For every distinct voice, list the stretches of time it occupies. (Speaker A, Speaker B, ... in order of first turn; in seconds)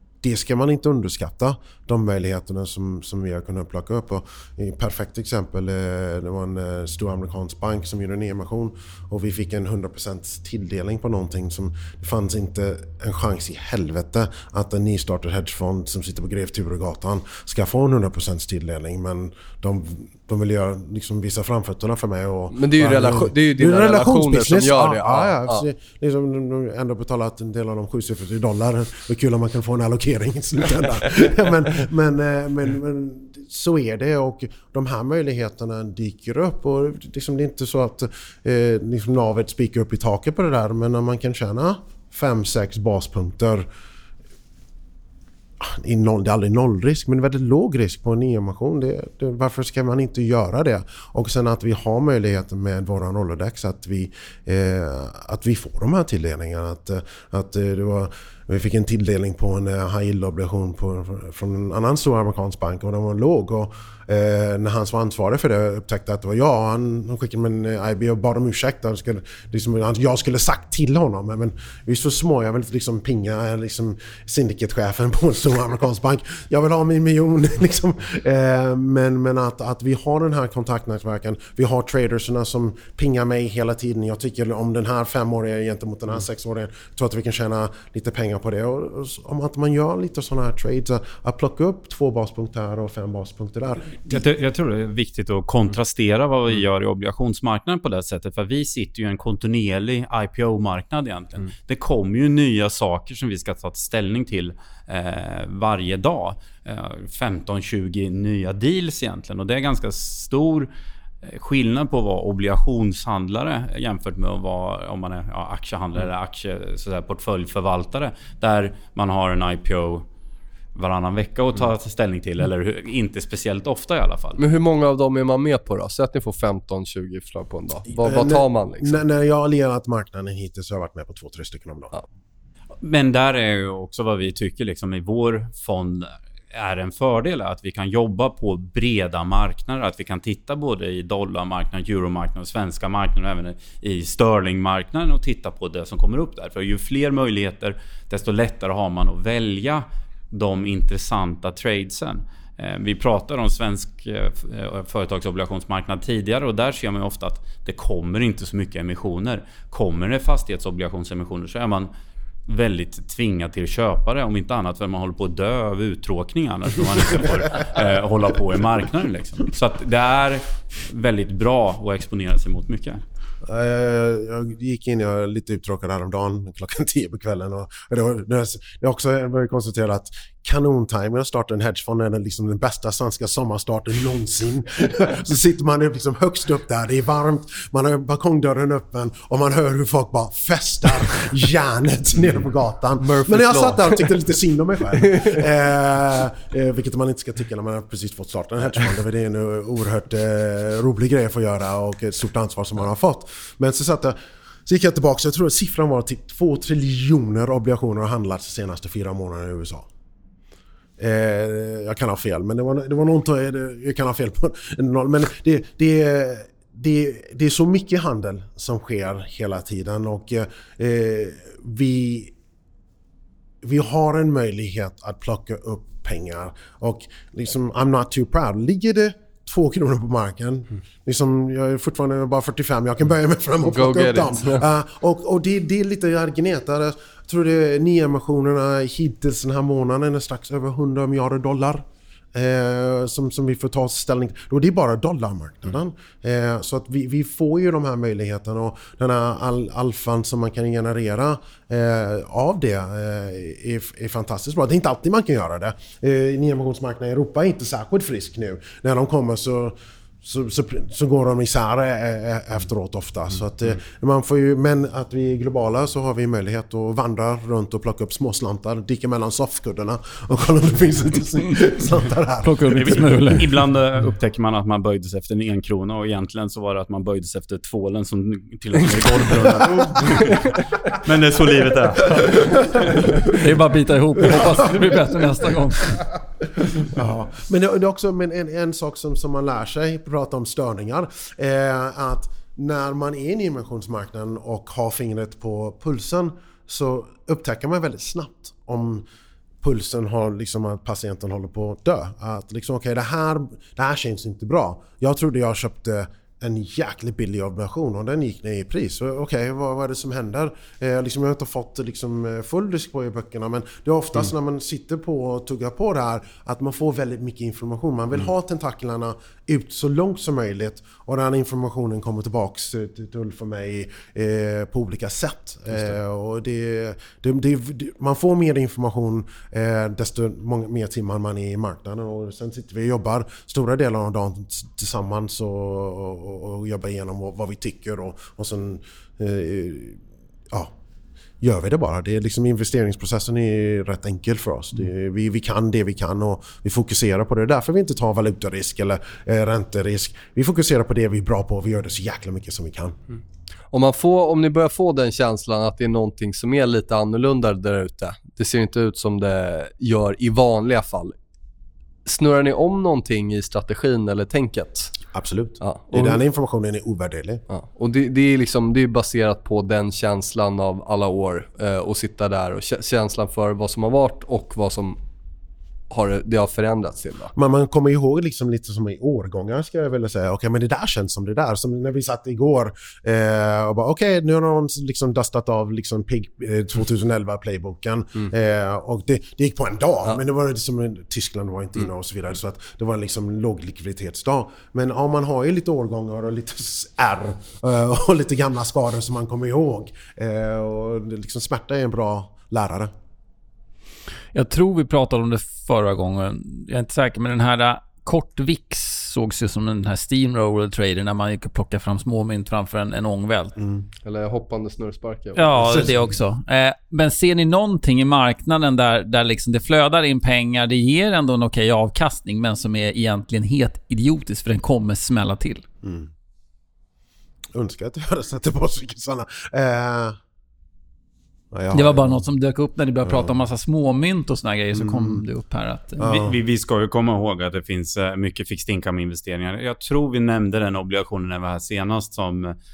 Speaker A: 0.2-43.7, 45.6-94.2, 127.9-131.9, 173.4-204.2, 204.7-209.9, 211.0-222.3, 223.6-273.0, 282.1-283.2, 284.2-285.0, 286.8-299.1, 299.6-340.7, 341.4-353.0, 365.1-367.4, 377.4-402.9, 413.6-413.9, 415.6-416.1, 425.8-426.1, 427.5-430.2, 431.5-432.2, 433.0-433.4, 434.7-435.2, 436.0-436.4
Speaker B: 22.5-25.6, 124.4-128.9, 193.0-194.1, 195.0-195.4, 233.6-234.7, 353.7-361.2, 362.1-364.9, 365.6-366.2, 367.5-375.0, 375.9-377.3, 414.0-415.6
Speaker C: 94.1-110.7, 111.2-120.1, 120.8-124.4, 132.8-161.9, 162.5-173.0, 272.7-282.6, 436.0-442.6
Speaker D: 272.4-273.5, 283.3-286.0, 404.3-413.6, 415.4-425.7, 431.7-436.0